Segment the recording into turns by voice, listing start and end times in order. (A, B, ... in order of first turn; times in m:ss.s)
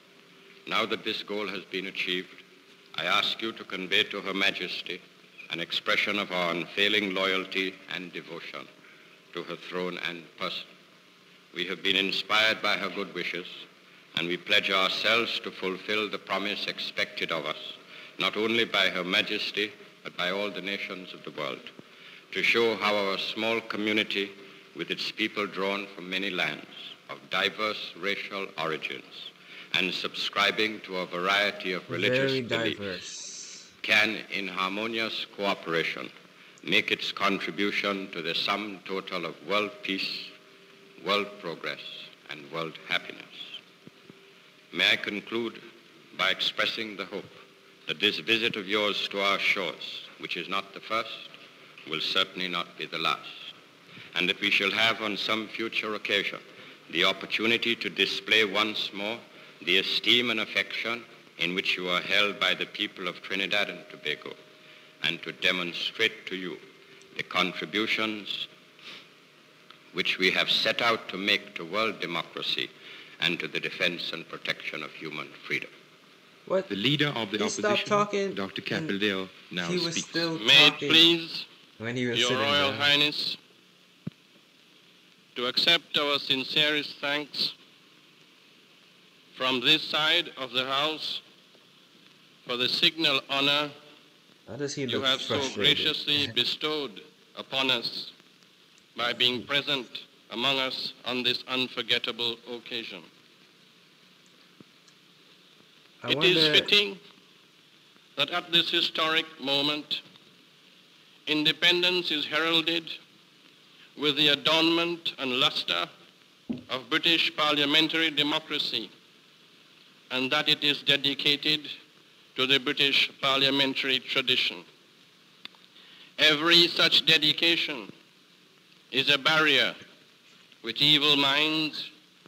0:00.6-0:08.7 A
0:09.3-0:10.7 A
0:11.5-0:21.7 A
0:22.3-0:32.8 A
0:31.9-0:33.7 B
0:33.8-0:36.1 A
0:36.6-0:40.3 A
0:41.0-0:43.6 A
0:44.7-0:45.6 A
0:46.1-0:51.3 A
0:51.8-0:53.5 A
0:54.1-1:04.4 A
1:05.0-1:06.6 A
1:07.1-1:08.5 A
1:09.9-1:15.7 A
1:16.7-1:20.3 C
1:17.4-1:18.9 B
1:19.6-1:21.1 B
1:20.4-1:21.5 D
1:21.8-1:22.9 B
1:22.1-1:23.4 D
1:25.3-1:27.5 D
1:29.3-1:31.2 D
1:32.4-1:33.7 D
1:34.5-1:36.3 B
1:34.9-1:38.1 D
1:38.9-1:43.0 D
1:46.0-1:46.7 B
1:46.0-1:47.0 D
1:48.2-1:50.0 D
1:51.2-1:53.0 D
1:54.0-1:55.9 D
1:56.7-1:58.9 D
2:00.1-2:01.7 D
2:02.3-2:04.6 D
2:06.2-2:07.9 D
2:08.9-2:09.8 D
2:10.6-2:11.9 D